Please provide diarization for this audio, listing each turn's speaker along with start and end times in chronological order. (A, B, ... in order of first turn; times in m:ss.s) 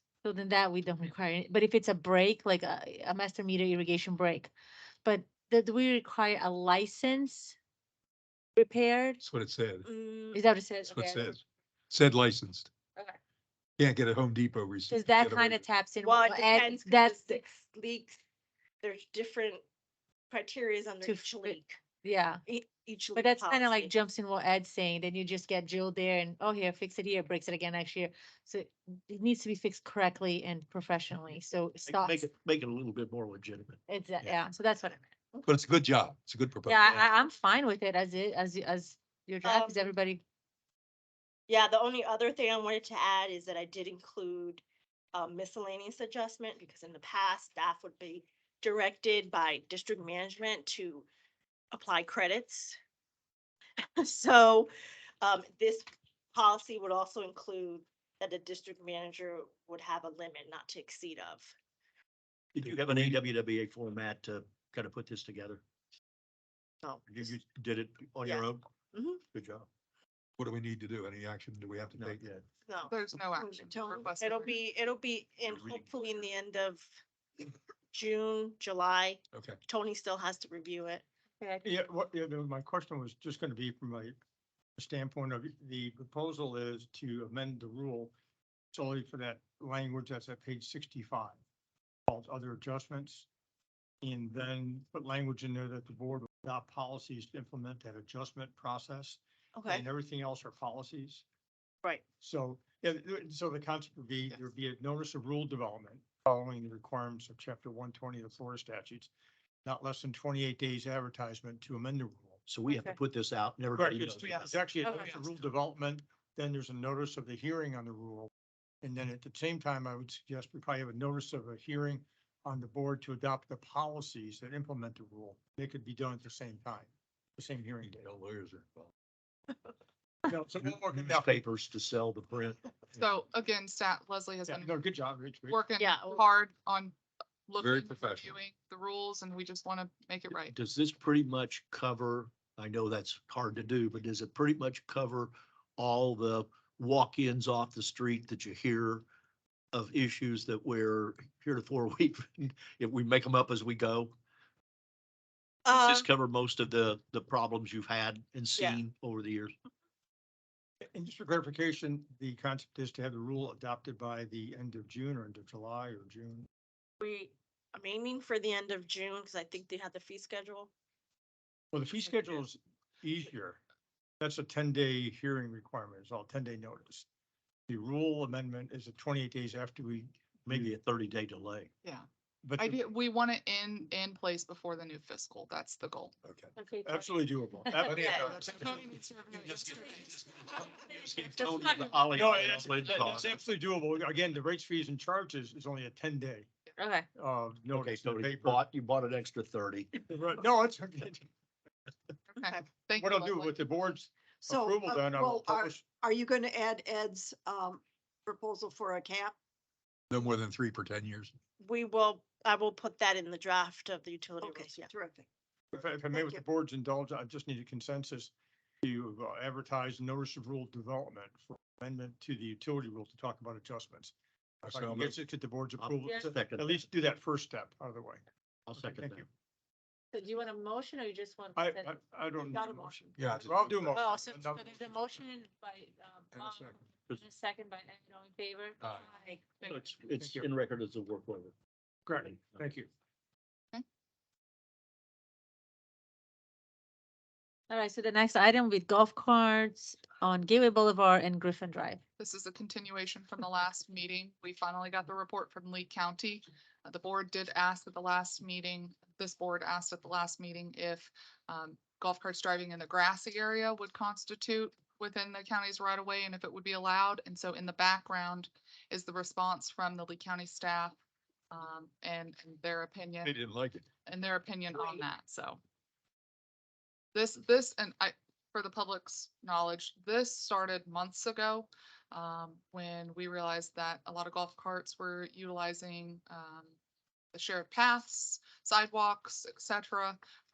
0:00.2-0:04.5 A
0:05.0-0:07.6 A
0:08.6-0:09.2 A
0:09.2-0:09.9 B
0:09.8-0:10.4 C
0:10.3-0:11.3 A
0:10.9-0:12.7 B
0:13.8-0:15.7 B
0:14.9-0:17.4 A
0:16.0-0:18.2 C
0:18.8-0:19.6 C
0:20.3-0:21.8 C
0:21.0-0:22.4 A
0:22.5-0:24.0 C
0:23.2-0:32.3 A
0:31.9-0:33.8 D
0:33.9-0:35.1 A
0:35.4-0:37.1 B
0:36.7-0:40.2 A
0:39.4-0:39.9 C
0:41.5-0:44.6 C
0:45.1-0:51.1 C
0:51.7-0:52.8 C
0:54.0-0:54.7 C
0:55.2-1:01.5 C
1:02.6-1:05.6 D
1:02.6-1:03.2 B
1:06.8-1:07.4 C
1:07.1-1:08.7 D
1:08.2-1:09.2 C
1:09.3-1:09.7 D
1:10.4-1:12.3 B
1:11.9-1:12.5 D
1:12.6-1:13.0 C
1:12.9-1:14.5 E
1:13.4-1:14.0 F
1:14.2-1:17.0 C
1:15.6-1:15.8 D
1:17.9-1:21.0 C
1:19.3-1:19.6 B
1:21.6-1:24.2 G
1:24.8-1:28.1 G
1:28.7-1:31.4 G
1:32.1-1:33.3 G
1:34.0-1:41.2 G
1:39.6-1:39.8 C
1:42.2-1:49.1 G
1:49.6-1:52.4 G
1:52.5-1:54.6 D
1:52.7-1:53.0 A
1:53.8-1:58.3 G
1:54.3-1:55.4 E
1:58.8-2:08.1 G
2:08.5-2:08.8 B
2:10.3-2:11.3 G
2:10.6-2:12.6 D
2:13.0-2:14.8 E
2:14.5-2:15.6 G
2:15.5-2:17.0 E
2:15.8-2:16.2 C
2:17.5-2:20.6 E
2:17.6-2:18.4 B
2:20.5-2:29.0 D
2:29.7-2:34.1 D
2:35.7-2:36.1 C
2:35.7-2:39.6 D
2:38.6-2:38.8 C
2:40.9-2:46.5 G
2:47.0-2:50.7 C
2:51.7-2:53.6 G
2:54.2-2:57.1 G
2:57.7-3:00.7 G
3:00.5-3:01.7 D
3:02.4-3:02.8 G
3:02.6-3:06.1 E
3:06.2-3:06.5 B
3:06.6-3:08.1 A
3:06.8-3:08.8 G
3:07.8-3:08.7 B
3:08.5-3:10.2 E
3:10.9-3:11.3 B
3:11.0-3:13.4 D
3:11.3-3:12.0 A
3:12.1-3:16.5 G
3:16.8-3:17.1 A
3:17.2-3:18.6 G
3:17.7-3:19.9 D
3:20.1-3:21.3 G
3:22.3-3:23.5 E
3:23.0-3:25.9 G
3:24.4-3:29.4 F
3:30.1-3:31.3 B
3:31.6-3:34.9 C
3:34.4-3:35.3 F
3:35.7-3:44.1 G
3:36.1-3:36.4 F
3:44.6-3:45.2 B
3:44.7-3:48.2 G
3:45.8-3:46.8 D
3:48.7-3:49.3 D
3:48.8-3:49.3 G
3:50.1-3:52.0 A
3:51.6-3:54.8 G
3:52.5-3:53.0 A
3:53.2-3:53.9 B
3:53.9-3:59.7 A
3:56.4-3:56.8 B
3:59.7-4:01.5 D
4:00.2-4:00.5 G
4:02.1-4:02.9 G
4:07.7-4:12.0 A
4:12.2-4:31.0 E
4:31.5-4:33.3 E
4:33.3-4:33.8 D
4:34.1-4:35.6 E
4:37.1-4:46.7 E
4:47.3-4:50.2 E